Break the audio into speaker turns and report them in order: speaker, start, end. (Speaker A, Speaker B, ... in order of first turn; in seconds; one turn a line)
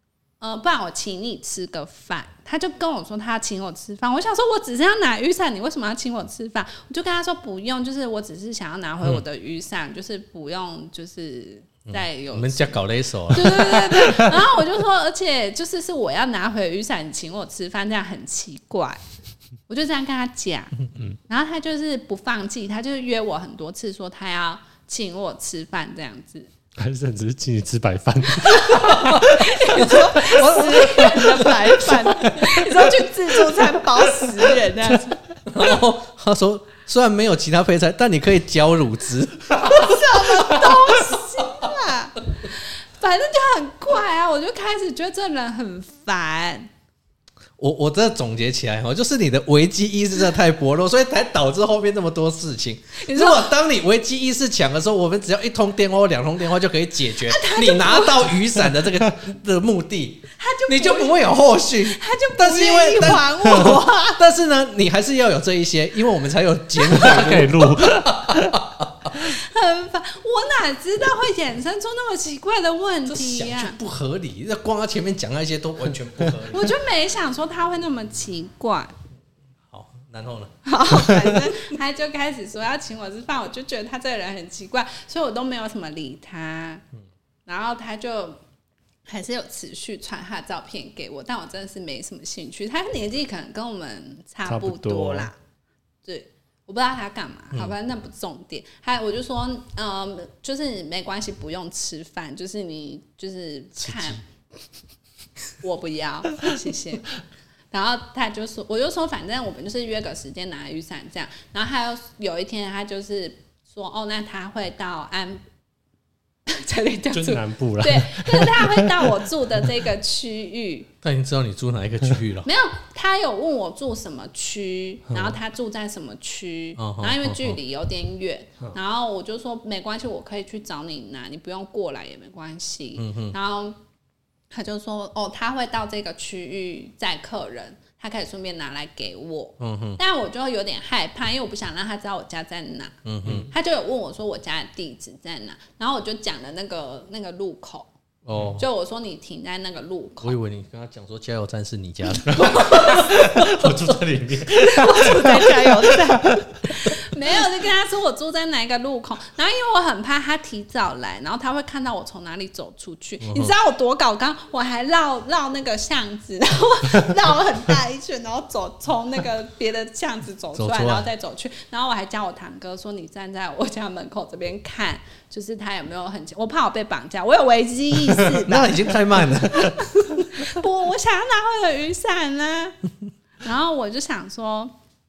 Speaker A: 0.4-19.0
Speaker B: 11.8-14.4
Speaker A: 19.7-20.7
Speaker A: 21.3-26.5
Speaker C: 26.8-29.6
Speaker A: 28.4-35.2
Speaker B: 28.8-31.8
Speaker C: 32.1-32.6
Speaker B: 35.5-40.7
Speaker A: 39.5-46.7
Speaker B: 47.6-69.1
Speaker A: 53.0-53.5
Speaker A: 57.3-58.4
Speaker A: 60.4-61.3
Speaker A: 61.8-64.2
Speaker C: 66.9-68.6
Speaker A: 69.1-73.8
Speaker B: 73.1-76.7
Speaker A: 76.5-78.9
Speaker B: 79.7-80.6
Speaker A: 80.6-86.8
Speaker A: 87.5-88.4
Speaker A: 89.1-95.3
Speaker C: 94.5-95.3
Speaker A: 96.0-104.2
Speaker B: 103.8-104.2
Speaker A: 105.6-107.1
Speaker A: 107.7-115.4
Speaker A: 116.5-120.9
Speaker C: 117.1-119.1
Speaker B: 121.0-122.5
Speaker A: 122.4-133.8
Speaker C: 125.1-125.3
Speaker B: 126.8-127.6
Speaker B: 133.0-133.3
Speaker A: 134.5-147.9
Speaker B: 139.6-140.0
Speaker B: 143.0-143.5
Speaker B: 148.2-148.6
Speaker A: 148.6-150.4
Speaker B: 150.2-154.0
Speaker A: 152.3-153.3
Speaker C: 152.4-156.6
Speaker A: 154.5-182.8
Speaker B: 163.2-163.5
Speaker B: 170.6-171.1
Speaker B: 178.3-180.1
Speaker A: 183.4-184.7